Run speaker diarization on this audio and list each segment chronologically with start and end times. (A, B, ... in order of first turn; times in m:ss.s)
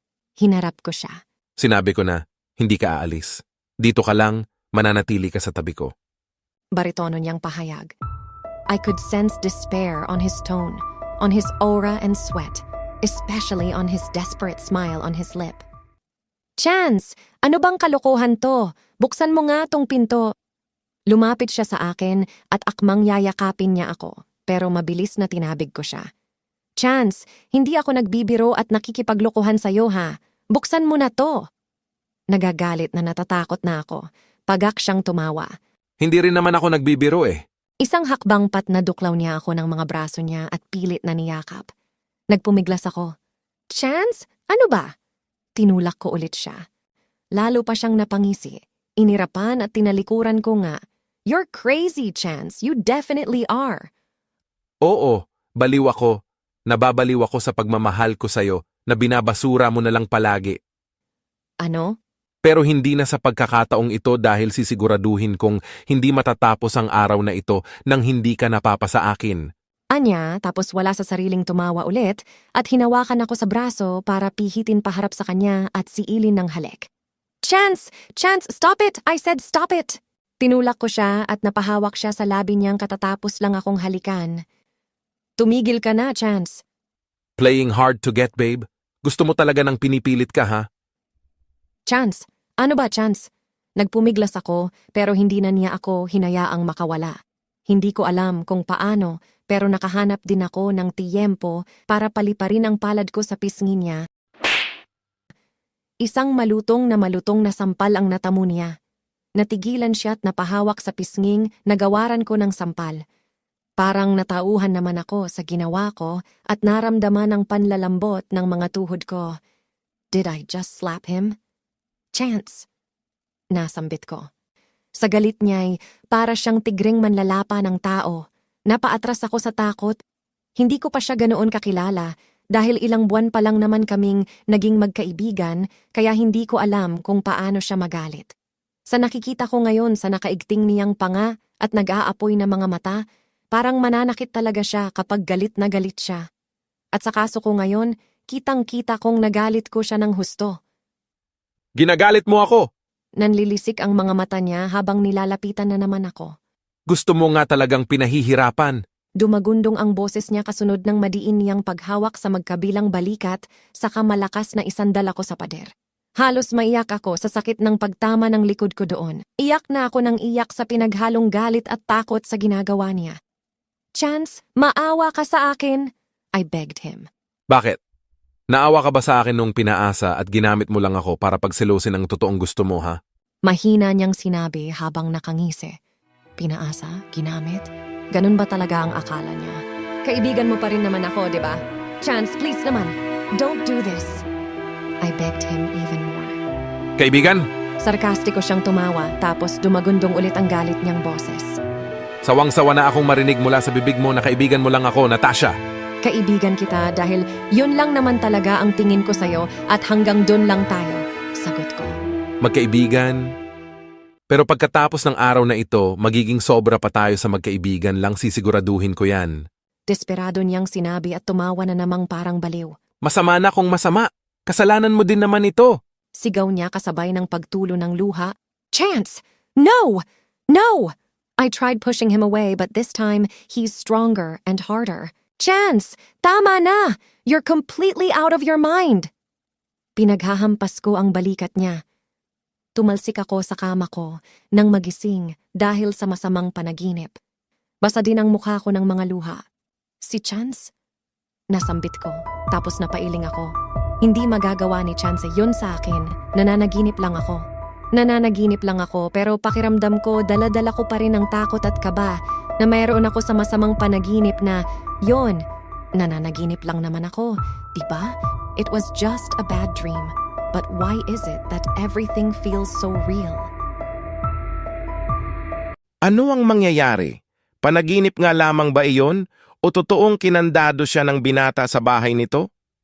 0:00.4-0:01.2 A
0:01.6-0:05.9 B
0:06.8-0:07.9 A
0:08.8-0:12.6 A
0:13.1-0:15.6 A
0:16.6-0:20.2 A
0:21.2-0:26.0 A
0:26.8-0:31.3 A
0:32.3-0:35.5 A
0:36.0-0:37.4 B
0:37.9-0:41.7 A
0:42.4-0:43.1 A
0:43.8-0:44.9 A
0:45.6-0:46.6 A
0:47.4-0:50.8 A
0:51.3-0:53.8 A
0:54.8-0:56.1 B
0:56.7-1:00.6 B
1:02.4-1:09.4 B
1:10.0-1:16.8 A
1:17.5-1:24.4 A
1:25.4-1:26.6 A
1:27.4-1:30.6 B
1:31.9-1:33.2 A
1:33.8-1:37.2 A
1:37.7-1:44.0 A
1:46.1-1:48.7 A
1:49.4-1:53.0 A
1:53.9-1:59.2 A
2:00.2-2:01.3 A
2:02.2-2:02.6 A
2:03.6-2:04.3 A
2:05.1-2:08.2 A
2:08.7-2:09.9 A
2:10.7-2:18.3 A
2:18.9-2:23.0 A
2:23.6-2:26.2 A
2:27.0-2:30.5 A
2:31.8-2:32.7 B
2:33.2-2:36.3 A
2:36.9-2:38.8 B
2:39.2-2:45.7 A
2:46.2-2:53.2 A
2:54.0-2:55.9 A
2:56.4-2:57.0 A
2:57.5-2:57.8 B
2:58.5-3:03.0 B
3:03.5-3:05.7 A
3:06.4-3:14.2 A
3:15.1-3:16.4 A
3:17.0-3:17.4 B
3:17.9-3:21.6 A
3:22.2-3:25.6 B
3:26.1-3:31.9 A
3:32.4-3:33.2 B
3:34.3-3:39.4 B
3:39.9-3:42.7 A
3:43.0-3:45.8 B
3:46.2-3:50.0 A
3:50.5-3:50.9 A
3:51.5-3:59.1 A
4:00.0-4:01.8 A
4:02.8-4:07.1 A
4:07.9-4:09.4 A
4:10.1-4:10.6 A
4:11.6-4:13.5 A
4:14.1-4:17.4 A
4:18.0-4:22.1 A
4:22.6-4:24.6 A
4:25.1-4:25.4 A
4:26.0-4:27.3 A
4:28.7-4:30.1 A
4:30.7-4:33.4 A
4:36.1-4:37.1 C
4:37.6-4:42.4 C